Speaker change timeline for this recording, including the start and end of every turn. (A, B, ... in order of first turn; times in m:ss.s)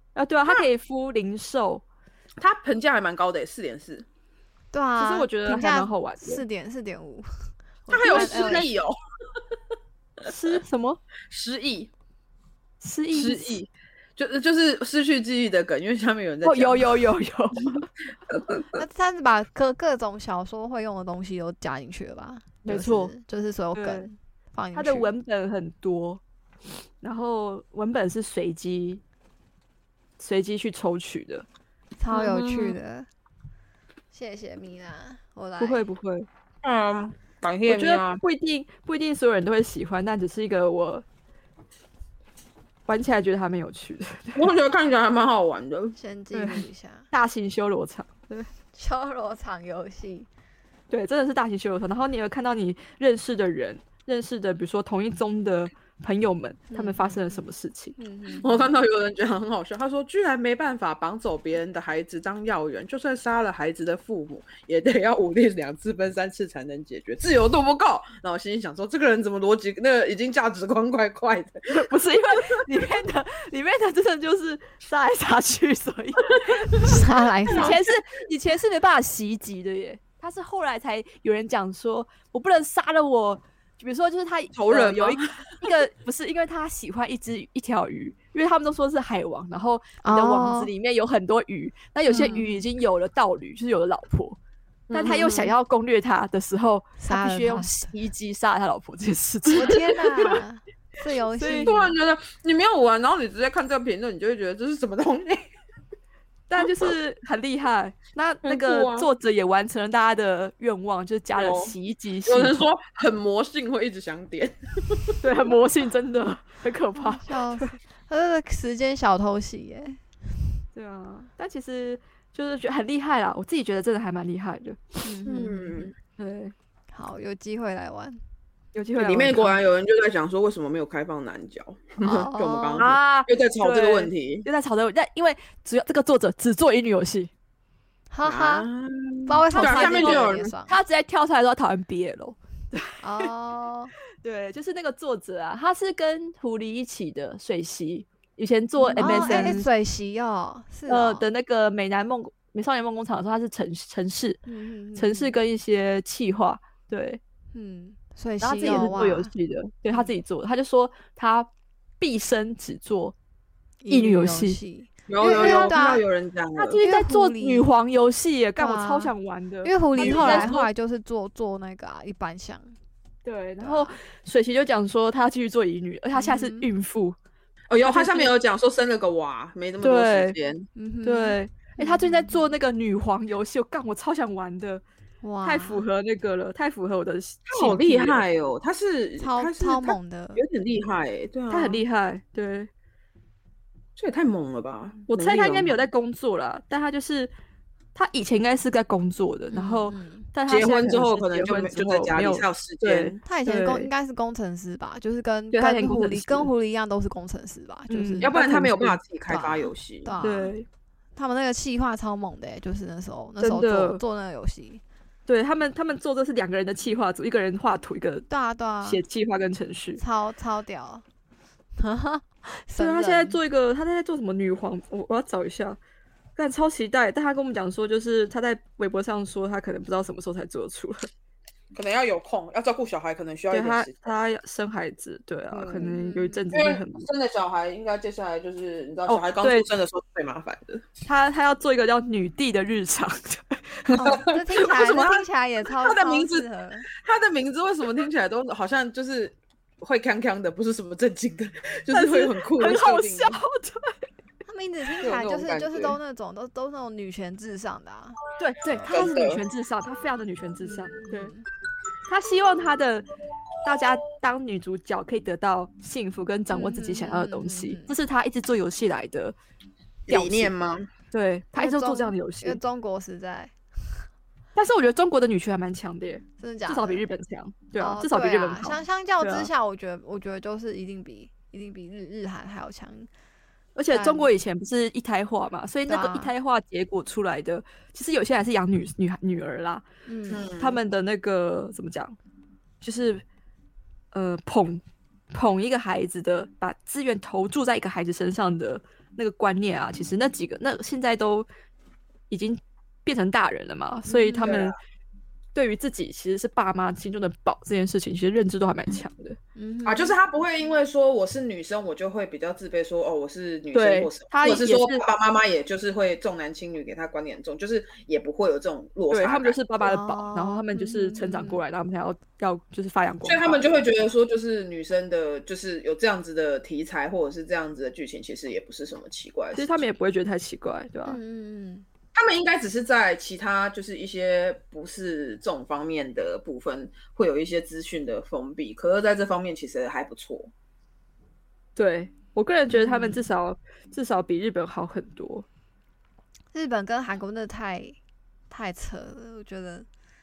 0:00.2-0:01.8 A
0:02.4-0:04.1 B
0:04.7-0:08.7 C
0:05.0-0:06.4 A
0:07.9-0:09.0 B
0:08.0-0:08.7 A
0:10.2-0:11.0 A
0:11.3-0:11.9 B
0:12.8-0:13.6 A
0:13.1-0:17.0 B
0:16.4-0:17.9 A
0:18.3-0:18.8 B
0:18.7-0:25.1 C
0:22.6-0:23.1 A
0:23.7-0:24.1 A
0:24.7-0:26.2 A
0:27.0-0:29.0 A
0:30.2-0:31.5 A
0:32.0-0:33.1 C
0:32.1-0:32.7 A
0:34.1-0:35.9 C
0:35.6-0:36.3 A
0:36.6-0:38.2 B
0:37.7-0:41.0 A
0:42.9-0:44.5 A
0:44.4-0:46.0 B
0:46.0-0:47.1 C
0:46.3-0:48.5 A
0:48.7-0:50.3 C
0:50.9-0:58.0 A
0:56.7-0:58.7 C
0:58.4-1:11.8 B
1:11.7-1:34.4 A
1:16.8-1:17.8 C
1:17.5-1:17.9 B
1:24.5-1:25.7 B
1:30.0-1:30.7 C
1:32.1-1:32.6 C
1:34.9-1:35.3 B
1:34.9-1:40.4 A
1:35.1-1:35.5 C
1:37.0-1:37.9 C
1:39.5-1:42.0 C
1:41.4-1:41.7 A
1:41.6-1:45.5 B
1:46.5-1:52.6 A
1:46.6-1:46.9 B
1:48.4-1:49.1 B
1:51.4-1:51.7 B
1:52.3-1:55.2 B
1:55.2-1:57.7 A
1:56.9-2:00.0 C
2:00.8-2:05.0 A
2:05.0-2:05.9 C
2:05.2-2:05.9 B
2:06.2-2:06.5 A
2:06.9-2:08.2 C
2:08.7-2:09.6 A
2:09.0-2:14.5 B
2:12.0-2:12.9 C
2:12.8-2:17.3 A
2:18.1-2:18.7 C
2:18.2-2:20.5 B
2:19.3-2:20.8 C
2:19.5-2:23.3 A
2:23.0-2:23.9 C
2:24.2-2:29.7 A
2:28.8-2:31.2 C
2:29.0-2:29.5 B
2:30.9-2:34.4 A
2:34.5-2:35.3 C
2:35.0-2:37.2 A
2:37.5-2:39.3 C
2:38.4-2:43.2 A
2:43.8-2:46.0 C
2:43.9-2:44.6 A
2:45.1-2:46.8 B
2:45.2-2:45.8 A
2:46.6-2:50.7 A
2:46.8-2:47.7 C
2:48.6-2:49.1 C
2:49.6-2:52.7 C
2:50.0-2:50.6 B
2:53.2-2:57.2 A
2:53.6-2:53.9 C
2:56.1-2:56.7 C
2:57.7-3:00.7 B
2:57.8-2:58.3 A
2:59.8-3:00.4 A
3:00.8-3:02.5 C
3:01.0-3:04.8 A
3:05.2-3:05.9 C
3:05.4-3:08.3 A
3:07.5-3:11.8 B
3:09.2-3:10.4 C
3:11.5-3:12.7 A
3:14.0-3:15.7 B
3:15.1-3:17.3 A
3:18.0-3:23.9 A
3:19.5-3:20.3 C
3:20.5-3:23.2 B
3:23.2-3:28.4 C
3:25.5-3:26.5 A
3:27.9-3:29.0 A
3:28.2-3:30.1 B
3:29.3-3:30.5 C
3:30.2-3:30.7 A
3:31.2-3:34.8 C
3:33.4-3:34.0 A
3:35.3-3:38.3 A
3:38.3-3:39.0 C
3:38.8-3:40.0 A
3:40.0-3:41.0 C
3:41.8-3:43.4 C
3:42.8-3:45.8 A
3:46.4-3:51.1 A
3:51.7-3:54.0 B
3:53.5-3:57.1 A
3:55.5-3:55.9 B
3:55.8-3:56.4 C
3:56.5-4:00.8 B
3:59.1-3:59.7 A
4:01.1-4:03.9 A
4:03.9-4:05.2 B
4:03.9-4:06.9 C
4:05.8-4:13.4 B
4:11.9-4:14.0 A
4:14.5-4:18.2 C
4:15.0-4:16.0 B
4:18.4-4:21.3 A
4:18.8-4:19.4 B
4:20.6-4:21.4 C
4:22.1-4:23.1 A
4:23.6-4:29.4 A
4:26.5-4:28.0 C
4:30.1-4:30.9 B
4:30.1-4:30.5 A
4:31.1-4:32.6 A
4:31.6-4:33.5 C
4:34.6-4:39.5 A
4:36.4-4:37.0 C
4:37.8-4:43.1 C
4:43.8-4:49.8 A
4:43.9-4:44.3 C
4:45.9-4:46.3 C
4:50.1-4:50.5 C
4:50.3-4:50.8 B
4:50.5-4:52.2 A
4:52.8-4:53.2 A
4:54.1-5:01.5 A
5:02.3-5:04.8 A
5:04.1-5:04.7 C
5:04.4-5:04.8 B
5:05.5-5:09.4 A
5:09.6-5:10.2 C
5:09.8-5:19.6 B
5:13.7-5:15.0 A
5:19.1-5:23.8 A
5:19.8-5:21.6 C
5:23.2-5:29.9 B
5:29.5-5:31.2 A
5:31.1-5:31.9 C
5:32.1-5:40.5 B
5:41.8-5:45.5 A
5:42.7-5:43.2 C
5:46.5-5:48.0 C
5:48.5-5:49.9 C